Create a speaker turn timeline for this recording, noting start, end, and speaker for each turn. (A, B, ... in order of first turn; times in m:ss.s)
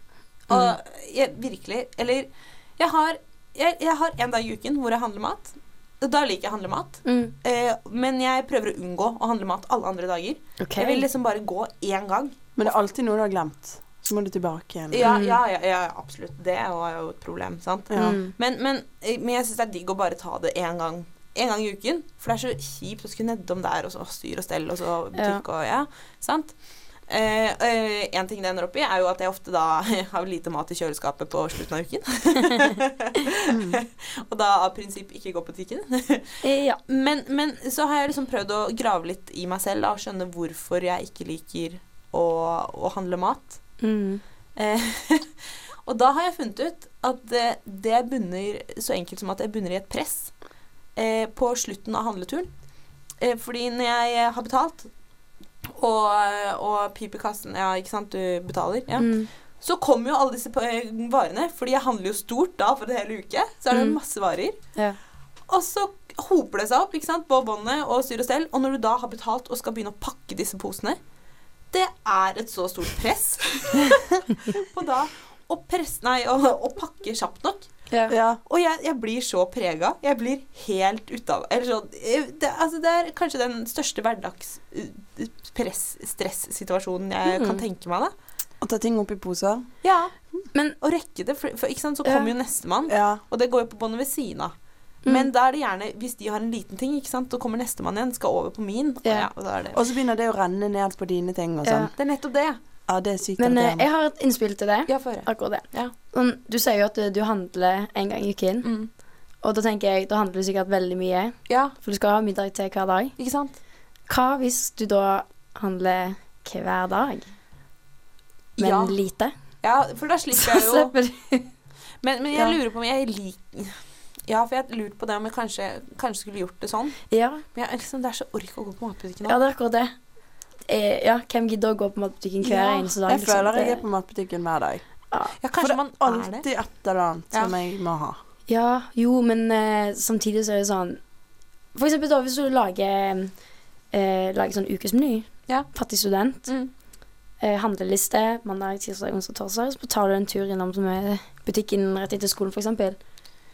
0:00.4-0:12.7 A
0:00.5-0:00.8 B
0:07.0-0:07.3 B
0:10.6-0:11.1 B
0:12.6-0:15.0 C
0:14.9-0:43.8 A
0:15.0-0:15.4 B
0:17.9-0:18.2 C
0:18.0-0:18.3 B
0:25.1-0:25.4 B
0:33.5-0:33.8 C
0:36.4-0:36.8 B
0:43.8-0:44.2 B
0:44.6-0:52.5 A
0:53.1-0:54.9 A
0:55.6-1:04.8 A
0:59.0-0:59.3 B
1:03.7-1:04.0 B
1:05.5-1:11.0 A
1:11.7-1:17.9 A
1:18.1-1:18.4 C
1:18.4-1:28.1 A
1:27.2-1:27.6 B
1:28.6-1:29.7 C
1:29.8-1:30.1 A
1:30.8-1:39.8 A
1:32.0-1:32.3 B
1:32.9-1:33.2 C
1:39.0-1:39.3 B
1:39.7-1:41.9 C
1:41.6-1:41.9 B
1:42.0-1:42.6 A
1:42.9-1:43.9 C
1:43.4-1:53.2 B
1:44.9-1:45.9 A
1:48.6-1:48.9 A
1:51.5-1:51.7 A
1:53.2-1:53.6 A
1:54.0-1:57.3 B
1:58.6-1:59.0 A
1:58.6-1:59.4 B
1:59.6-2:00.9 A
2:00.4-2:01.5 B
2:02.0-2:09.4 A
2:07.1-2:07.4 B
2:09.2-2:13.8 B
2:12.4-2:13.0 A
2:13.1-2:18.2 C
2:15.1-2:15.4 B
2:15.4-2:16.7 A
2:18.5-2:21.2 B
2:21.7-2:26.8 B
2:25.5-2:26.7 A
2:27.4-2:33.0 B